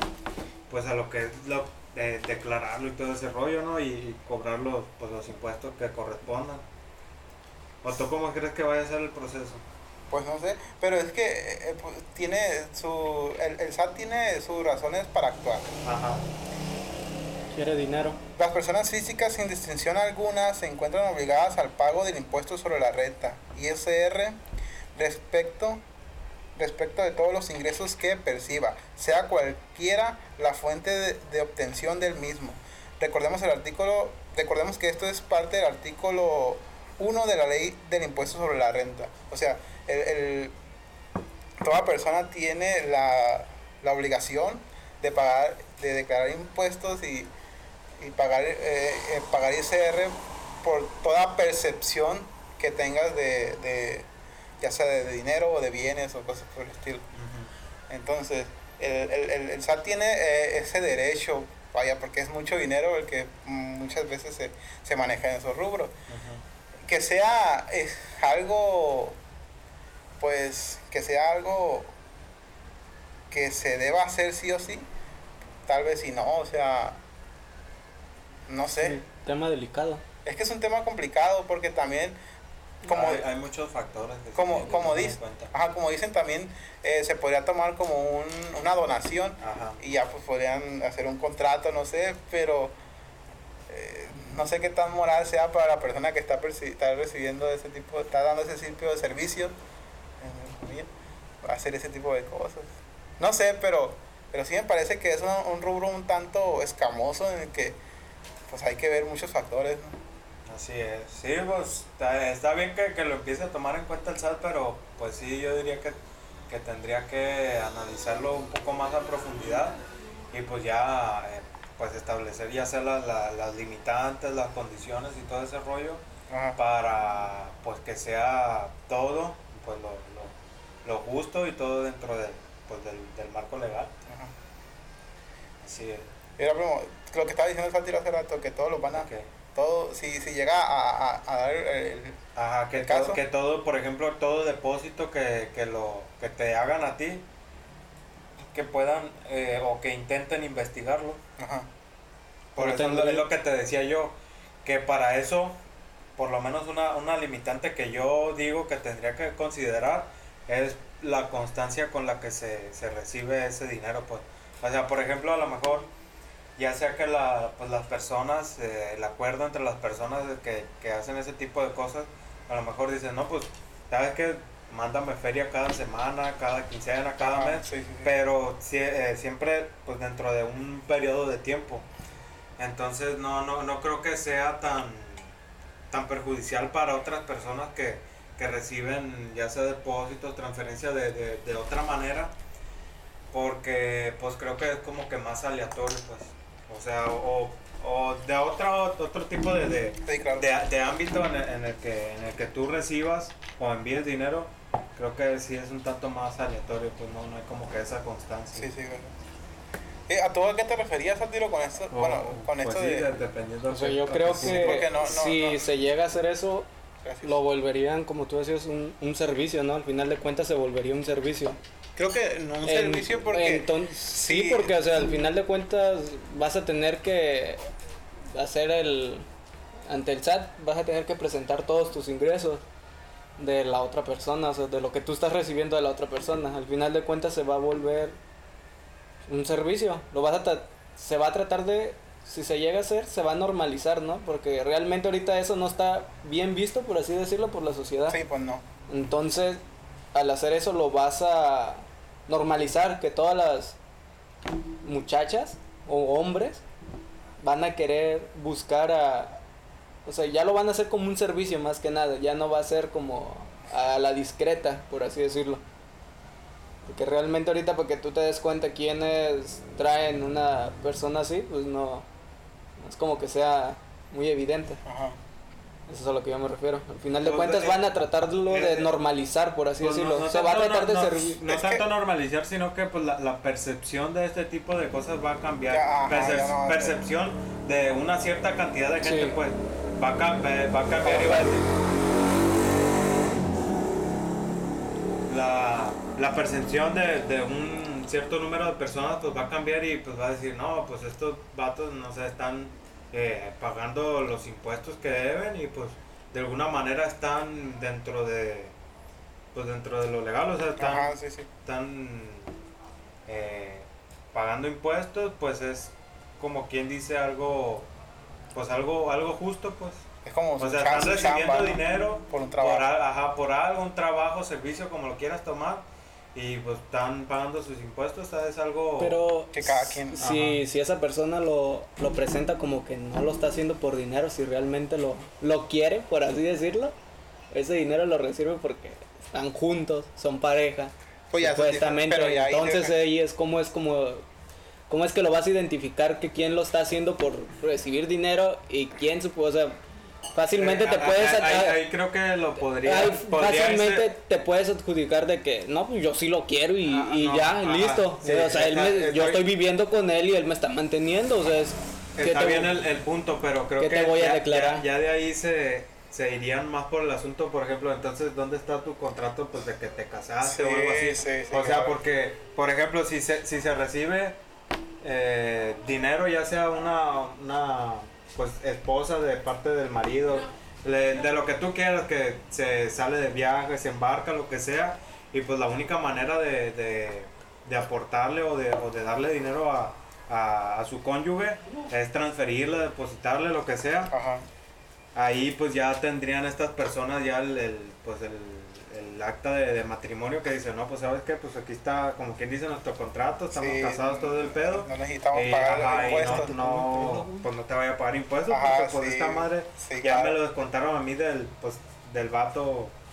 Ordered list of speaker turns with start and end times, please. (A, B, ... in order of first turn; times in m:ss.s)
0:00.7-0:06.6 A
0:07.8-0:09.6 A
0:10.1-0:15.8 B
0:15.8-0:16.3 A
0:17.5-0:18.2 C
0:18.4-0:24.4 B
0:25.0-0:25.8 B
0:26.6-0:40.5 B
0:41.6-0:47.3 B
0:48.0-0:54.1 B
0:54.6-0:57.0 B
0:57.2-0:57.5 A
0:57.9-1:05.9 B
1:06.1-1:06.4 A
1:06.8-1:09.2 B
1:10.2-1:11.9 B
1:13.3-1:14.9 B
1:15.7-1:17.0 B
1:18.5-1:19.0 B
1:18.8-1:20.0 C
1:20.2-1:22.2 B
1:22.8-1:23.2 B
1:22.9-1:25.5 A
1:24.4-1:32.8 B
1:29.4-1:29.8 A
1:33.7-1:39.5 B
1:40.2-1:40.9 B
1:41.4-1:47.8 B
1:48.5-1:50.0 B
1:50.5-1:56.0 A
1:56.5-1:59.8 A
2:00.3-2:06.0 A
2:06.3-2:06.6 B
2:06.6-2:10.3 A
2:10.8-2:13.9 A
2:14.1-2:14.3 B
2:15.6-2:16.1 A
2:16.4-2:22.2 B
2:18.9-2:19.3 A
2:22.4-2:27.2 A
2:22.8-2:23.2 B
2:28.5-2:31.2 A
2:31.4-2:31.7 B
2:32.6-2:35.6 A
2:32.6-2:33.3 C
2:36.2-2:45.9 A
2:46.6-3:01.9 A
2:57.2-2:58.1 B
3:02.6-3:05.3 A
3:05.9-3:12.3 A
3:13.3-3:28.7 A
3:20.1-3:20.5 B
3:28.6-3:29.2 B
3:30.1-3:33.1 B
3:31.9-3:34.9 A
3:33.7-3:36.7 C
3:34.3-3:35.6 B
3:37.0-3:37.4 B
3:37.2-3:41.6 C
3:42.0-3:44.8 B
3:42.6-3:47.7 C
3:48.3-3:49.3 C
3:49.9-3:52.6 C
3:53.4-3:58.2 C
3:59.3-4:08.2 C
4:08.1-4:08.6 B
4:08.9-4:09.6 C
4:10.1-4:13.8 C
4:14.8-4:16.6 C
4:17.4-4:19.4 C
4:20.1-4:25.6 C
4:26.9-4:32.1 C
4:32.8-4:34.8 C
4:34.8-4:35.2 B
4:35.9-4:41.4 C
4:37.2-4:37.8 A
4:38.5-4:38.9 A
4:39.8-4:51.7 A
4:41.4-4:41.8 B
4:45.7-4:47.0 B
4:49.0-4:49.4 C
4:51.0-4:51.5 C
4:51.1-4:51.5 B
4:55.3-5:08.7 A
5:09.5-5:11.1 A
5:10.8-5:11.5 B
5:11.6-5:12.6 A
5:13.3-5:17.9 A
5:18.5-5:20.0 A
5:20.2-5:22.9 B
5:20.6-5:29.2 A
5:29.0-5:36.9 C
5:29.5-5:30.2 B
5:30.2-5:30.6 A
5:37.5-5:44.3 C
5:41.3-5:43.0 B
5:44.9-5:49.8 C
5:50.3-5:51.8 C
5:50.5-5:54.1 A
5:52.6-6:02.7 C
5:56.9-5:59.5 A
6:02.2-6:14.4 A
6:03.8-6:04.9 C
6:10.4-6:12.0 B
6:15.0-6:34.1 A
6:34.1-6:34.4 B
6:35.2-6:52.9 A
6:43.5-6:46.5 B
6:46.0-6:47.4 C
6:48.5-6:50.4 B